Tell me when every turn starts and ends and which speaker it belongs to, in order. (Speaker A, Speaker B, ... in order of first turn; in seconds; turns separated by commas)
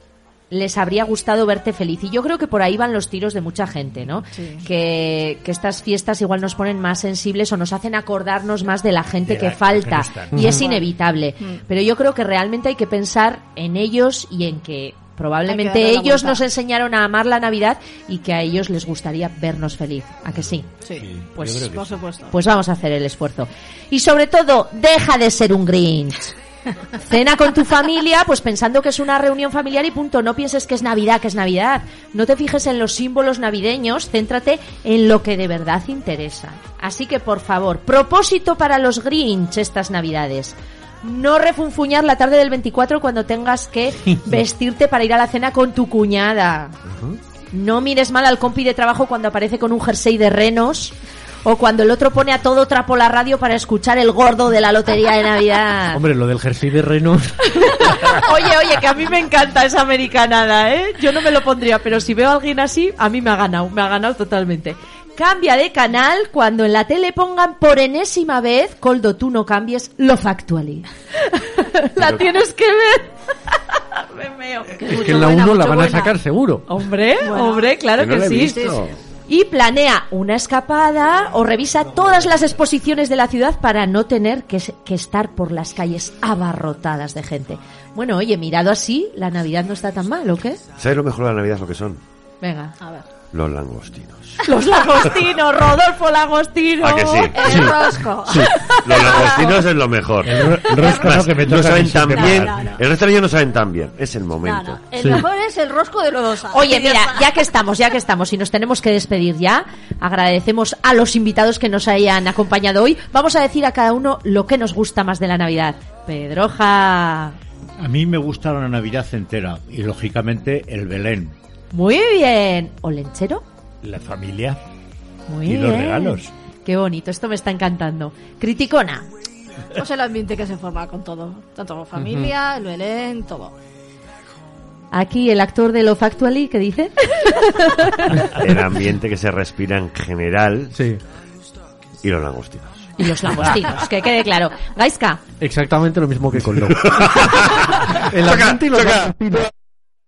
Speaker A: 0.5-20.6, Speaker B: 4.3-4.7, Speaker C: 9.3-10.7, Speaker B: 10.4-10.8, Speaker B: 15.5-16.4, Speaker B: 20.8-22.3, Speaker C: 21.1-21.8, Speaker A: 21.3-26.3, Speaker A: 27.0-46.8, Speaker D: 46.9-47.2, Speaker A: 47.5-56.0, Speaker D: 55.9-57.9, Speaker A: 57.5-75.8, Speaker B: 74.8-76.1, Speaker D: 74.8-76.7, Speaker A: 76.7-78.7, Speaker B: 77.2-77.8, Speaker E: 78.0-79.0, Speaker B: 78.4-78.8, Speaker A: 79.3-90.6, Speaker E: 90.8-92.0, Speaker A: 92.4-92.7, Speaker E: 93.3-94.4, Speaker A: 94.4-97.7, Speaker E: 96.8-97.7, Speaker B: 97.3-99.6, Speaker D: 97.5-97.8, Speaker A: 98.4-99.5, Speaker E: 98.8-104.8, Speaker C: 100.2-102.5, Speaker B: 100.7-101.0, Speaker B: 102.1-102.8, Speaker B: 104.4-107.2, Speaker D: 105.0-105.2, Speaker A: 106.5-117.4, Speaker F: 117.8-121.3, Speaker A: 121.7-123.4, Speaker C: 123.8-124.6, Speaker A: 125.3-129.0, Speaker C: 125.4-126.3, Speaker B: 129.8-133.5, Speaker D: 131.9-132.3, Speaker A: 134.9-138.1, Speaker E: 138.3-140.7, Speaker D: 140.7-141.0, Speaker E: 142.0-142.9, Speaker A: 143.0-145.2, Speaker D: 145.4-149.5, Speaker E: 146.7-147.7, Speaker E: 148.2-149.1